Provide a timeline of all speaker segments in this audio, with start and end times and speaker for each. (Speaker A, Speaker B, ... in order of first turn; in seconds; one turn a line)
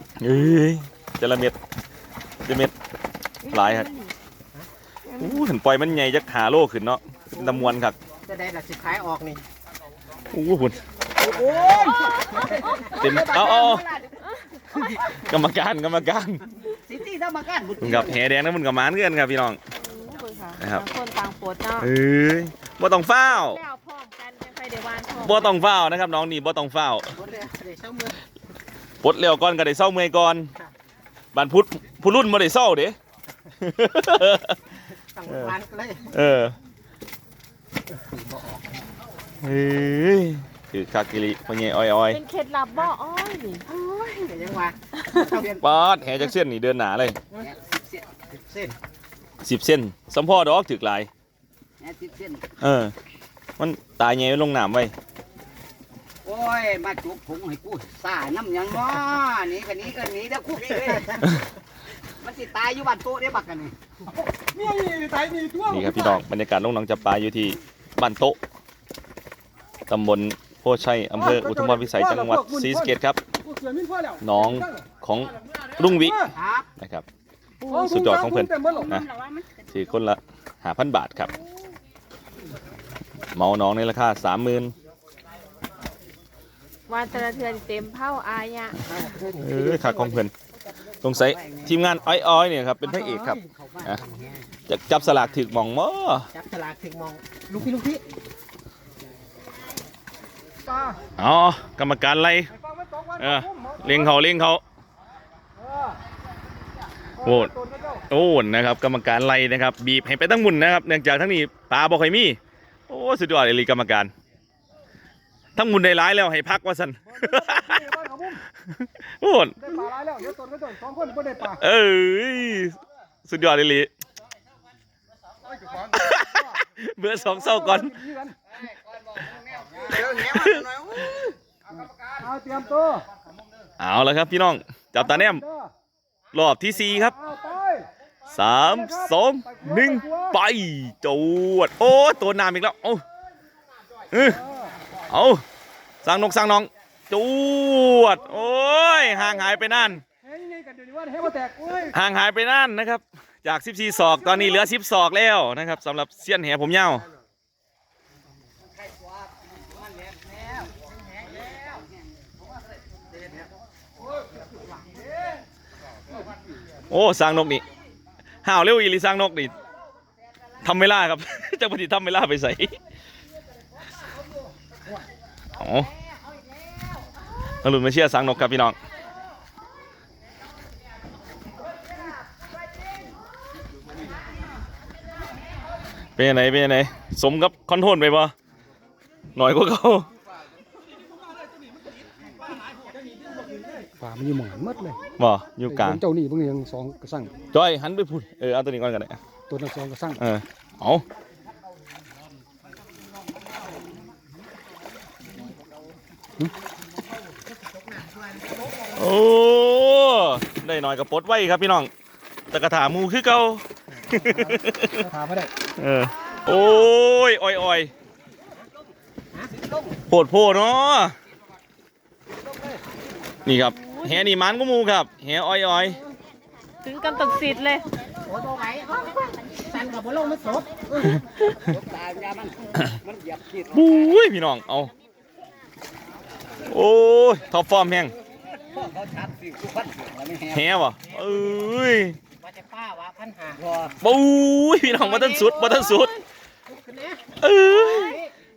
Speaker A: 0.2-1.6
Speaker A: 2.4-2.7
Speaker B: 3.4-4.1
Speaker A: 3.5-3.9
Speaker B: 5.1-5.4
Speaker A: 5.2-8.0
Speaker C: 8.2-9.4
Speaker A: 10.3-10.8
Speaker D: 11.2-14.9
Speaker B: 11.9-12.9
Speaker A: 12.9-13.8
Speaker A: 14.8-16.4
Speaker D: 16.7-18.2
Speaker A: 17.8-19.6
Speaker B: 19.7-21.9
Speaker A: 20.6-20.8
Speaker A: 21.8-23.6
Speaker B: 23.2-25.5
Speaker A: 25.2-27.1
Speaker C: 27.1-28.2
Speaker A: 29.0-30.5
Speaker A: 31.3-33.0
Speaker A: 33.6-34.5
Speaker C: 35.1-36.1
Speaker A: 36.1-36.5
Speaker A: 39.4-42.2
Speaker B: 42.1-43.6
Speaker C: 43.7-45.6
Speaker A: 45.6-47.2
Speaker D: 47.3-48.1
Speaker C: 48.3-48.8
Speaker A: 49.4-51.1
Speaker D: 51.8-52.5
Speaker A: 52.6-52.9
Speaker A: 53.6-54.9
Speaker D: 56.2-61.2
Speaker D: 62.2-63.7
Speaker E: 64.1-66.2
Speaker A: 65.7-68.4
Speaker A: 69.9-73.2
Speaker E: 71.1-74.9
Speaker A: 74.2-76.2
Speaker E: 75.8-76.3
Speaker C: 76.3-76.7
Speaker A: 76.8-77.0
Speaker E: 77.6-78.9
Speaker A: 77.7-79.0
Speaker D: 78.8-79.8
Speaker A: 79.7-81.3
Speaker A: 83.3-84.7
Speaker B: 86.9-88.8
Speaker D: 88.9-90.2
Speaker A: 89.4-90.3
Speaker A: 91.0-94.0
Speaker D: 91.0-92.2
Speaker C: 92.8-93.7
Speaker D: 93.7-94.5
Speaker A: 94.7-96.3
Speaker C: 96.3-98.0
Speaker E: 100.6-101.0
Speaker A: 101.2-102.5
Speaker E: 102.5-104.2
Speaker A: 103.2-104.6
Speaker E: 105.6-106.0
Speaker E: 107.2-108.0
Speaker A: 107.2-107.5
Speaker A: 108.1-112.4
Speaker A: 112.9-114.1
Speaker A: 115.5-117.8
Speaker E: 117.1-118.4
Speaker A: 118.8-119.8
Speaker E: 119.6-121.6
Speaker A: 121.6-123.9
Speaker E: 125.7-126.4
Speaker A: 125.9-127.9
Speaker E: 127.1-128.4
Speaker D: 129.3-131.2
Speaker A: 130.1-130.7
Speaker E: 132.2-133.1
Speaker A: 133.8-135.4
Speaker E: 135.0-135.7
Speaker A: 136.3-137.2
Speaker E: 136.9-137.9
Speaker A: 138.3-143.0
Speaker E: 138.5-140.4
Speaker A: 144.1-144.4
Speaker E: 144.3-144.8
Speaker A: 145.1-145.4
Speaker A: 146.0-150.0
Speaker E: 150.2-151.9
Speaker A: 151.9-157.1
Speaker E: 153.9-154.7
Speaker D: 160.0-160.4
Speaker A: 166.9-167.6
Speaker A: 168.4-169.5
Speaker A: 170.6-172.8
Speaker A: 175.6-175.9
Speaker A: 177.6-178.8
Speaker A: 186.2-188.3
Speaker A: 189.3-190.1
Speaker E: 193.8-195.0
Speaker A: 195.2-196.0
Speaker E: 195.7-197.3
Speaker A: 197.5-199.2
Speaker E: 199.5-200.2
Speaker A: 200.2-201.0
Speaker C: 207.7-208.5
Speaker A: 208.9-211.9
Speaker A: 212.5-215.0
Speaker E: 214.0-215.5
Speaker A: 215.8-217.9
Speaker D: 218.5-218.9
Speaker D: 219.4-220.0
Speaker A: 220.1-221.1
Speaker D: 222.4-222.8
Speaker A: 223.4-226.0
Speaker B: 223.7-224.3
Speaker B: 226.8-227.9
Speaker C: 228.2-231.2
Speaker D: 231.6-234.0
Speaker A: 233.7-234.9
Speaker A: 236.7-238.1
Speaker D: 238.6-240.7
Speaker A: 240.5-242.2
Speaker C: 242.4-243.6
Speaker D: 243.6-243.9
Speaker A: 244.0-246.1
Speaker B: 244.9-246.1
Speaker C: 246.7-248.3
Speaker A: 247.4-248.2